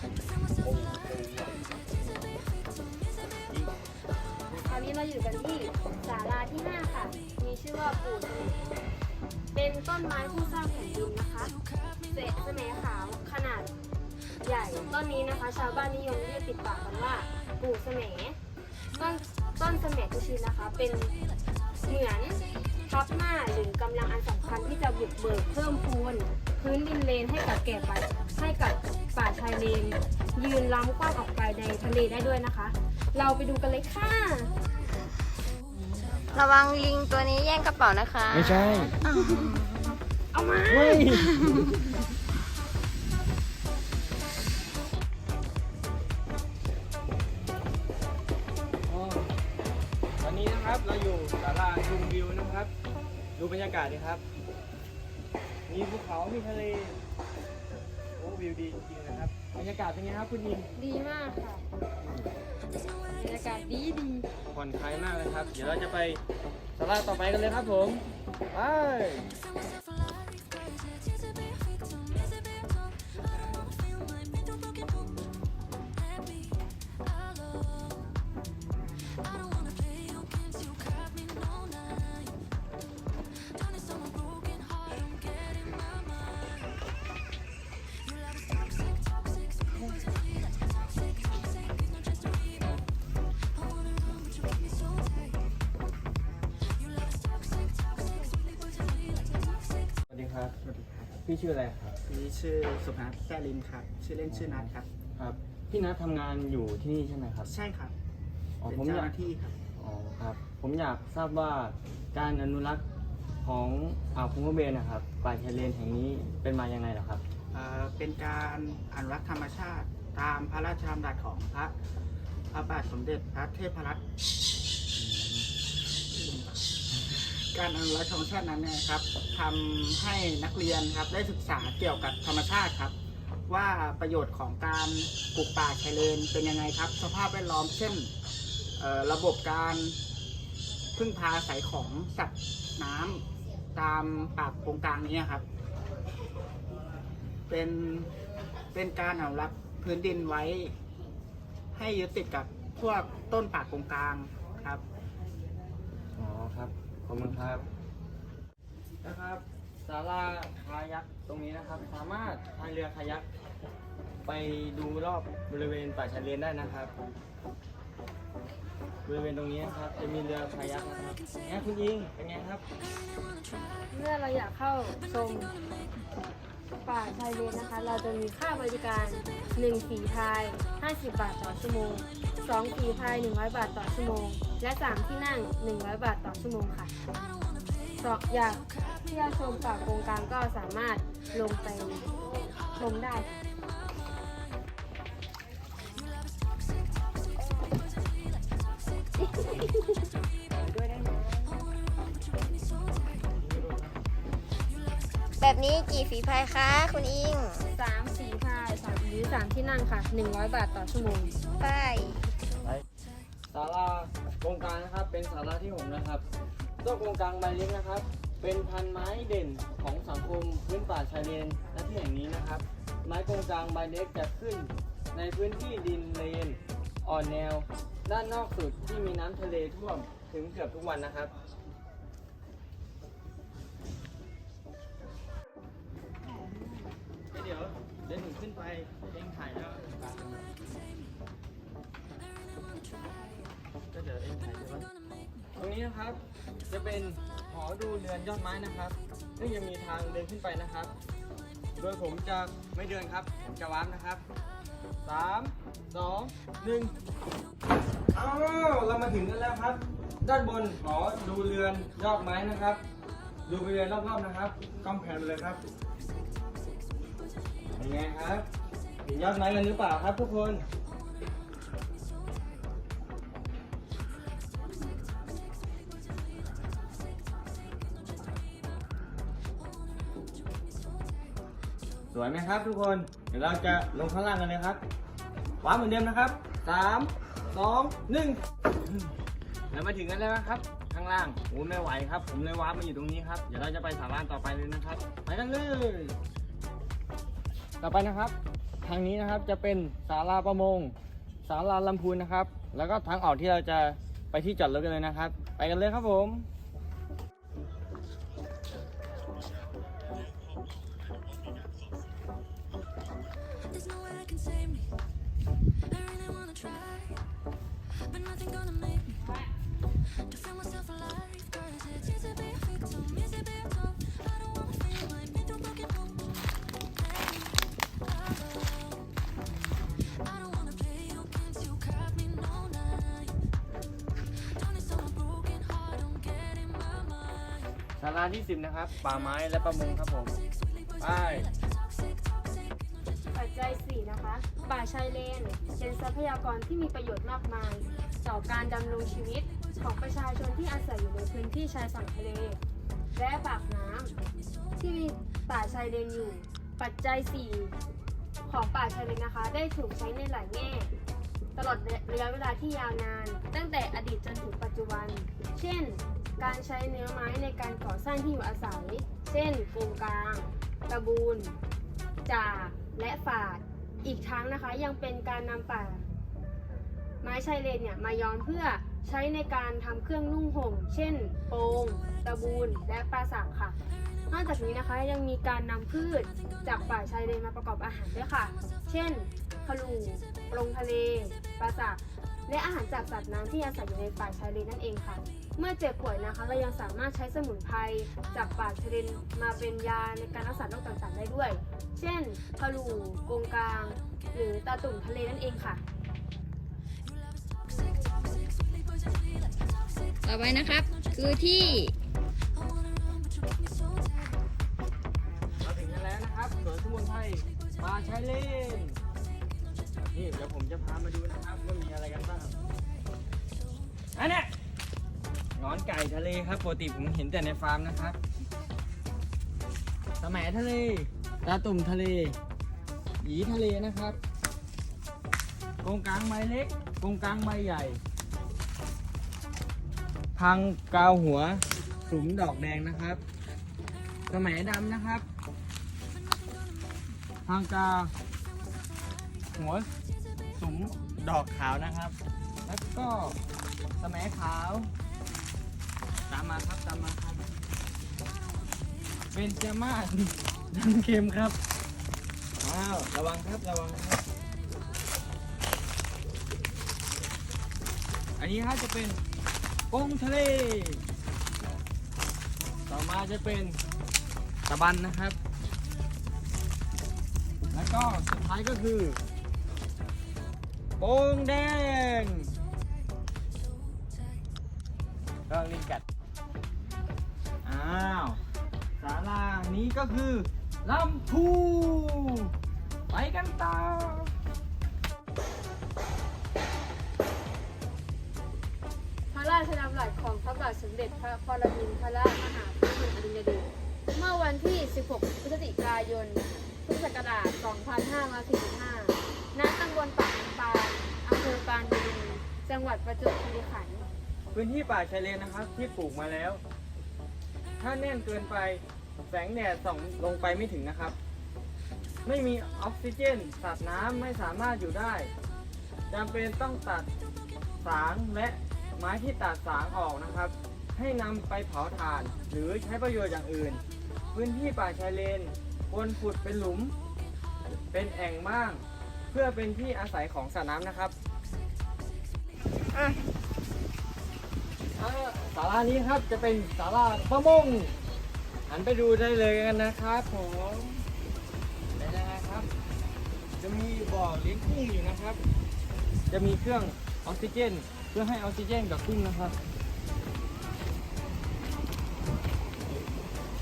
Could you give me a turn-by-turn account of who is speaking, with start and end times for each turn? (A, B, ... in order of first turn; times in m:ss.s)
0:00.6-0:02.2 A
0:04.7-0:08.7 B
0:09.5-0:11.5 B
0:12.1-0:13.7 B
0:14.4-0:18.4 B
0:18.9-0:21.1 B
0:21.8-0:34.5 B
0:36.3-0:39.6 C
0:38.3-0:38.9 A
0:40.3-0:40.7 B
0:40.7-0:41.7 A
0:41.2-0:41.6 C
0:48.9-0:49.3 A
0:50.2-0:52.7 A
0:53.4-0:54.2 A
0:55.7-0:57.0 A
0:58.2-1:00.7 A
1:00.8-1:01.6 B
1:02.0-1:02.3 A
1:03.1-1:04.3 B
1:04.5-1:06.2 A
1:06.8-1:09.2 A
1:40.1-1:40.5 A
1:40.6-1:41.1 D
1:41.2-1:42.0 A
1:42.0-1:44.9 D
1:44.3-1:47.5 A
1:47.4-1:47.9 D
1:48.6-1:49.1 A
1:48.6-1:49.6 D
1:49.8-1:52.8 A
1:53.4-1:57.2 A
1:57.5-2:01.7 D
2:02.5-2:04.0 D
2:05.0-2:05.4 A
2:06.1-2:12.9 D
2:13.5-2:18.1 D
2:18.8-2:20.0 D
2:21.0-2:23.2 D
2:23.7-2:25.4 D
2:27.5-2:28.1 D
2:28.7-2:30.7 D
2:31.7-2:34.8 D
2:36.2-2:37.7 A
2:39.0-2:43.2 A
2:44.2-2:46.9 A
2:49.0-2:52.6 A
2:53.9-2:55.5 B
2:56.8-3:06.9 B
3:08.0-3:12.1 B
3:12.7-3:13.3 B
3:19.3-3:19.9 B
3:20.7-3:21.5 B
3:23.4-3:23.9 A
3:25.4-3:27.6 C
3:27.7-3:31.4 B
3:31.6-3:32.2 C
3:33.5-3:36.2 A
3:36.8-3:51.3 A
3:57.3-4:00.4 A
4:03.9-4:04.9 A
4:05.6-4:10.9 A
4:11.8-4:14.2 A
4:15.0-4:16.9 A
4:18.1-4:22.8 A
4:23.5-4:25.6 A
4:27.7-4:28.5 A
4:29.0-4:30.6 A
4:42.1-4:44.8 A
4:45.6-4:48.4 A
4:49.7-4:56.1 A
4:57.8-5:00.9 A
5:01.4-5:06.5 A
5:19.2-5:19.5 B
5:38.0-5:40.4 A
5:41.0-5:41.5 A
5:43.3-5:52.6 B
5:53.2-5:54.2 B
5:54.8-5:57.8 B
5:58.4-6:00.9 B
6:01.5-6:11.6 B
6:12.2-6:16.0 B
6:17.2-6:23.8 B
6:24.3-6:45.8 B
6:50.2-6:51.9 C
6:55.6-6:59.0 A
7:00.1-7:02.6 A
7:04.1-7:04.5 A
7:05.6-7:08.2 A
7:10.2-7:12.4 A
7:13.2-7:14.2 A
7:15.8-7:18.0 A
7:20.4-7:23.2 A
7:24.3-7:25.2 A
7:27.4-7:28.1 A
7:29.5-7:29.9 A
7:30.6-7:33.4 A
7:34.0-7:34.9 A
7:36.3-7:37.4 A
7:39.3-7:41.6 A
7:42.6-7:44.2 A
7:48.4-7:49.2 A
7:49.9-7:51.0 A
7:52.9-7:53.8 A
7:54.7-7:55.4 A
7:57.7-7:59.2 A
8:01.0-8:02.5 A
8:05.5-8:06.0 A
8:07.6-8:08.4 A
8:09.0-8:12.5 A
8:13.1-8:14.3 A
8:19.3-8:34.1 B
8:34.5-8:36.6 A
8:37.8-8:41.2 A
8:42.2-8:45.3 A
8:46.1-8:47.1 A
8:47.8-8:53.8 A
8:54.3-8:56.9 A
8:57.9-9:01.1 A
9:05.0-9:07.9 A
9:08.7-9:11.0 A
9:12.0-9:12.7 A
9:13.6-9:15.4 A
9:16.3-9:19.6 A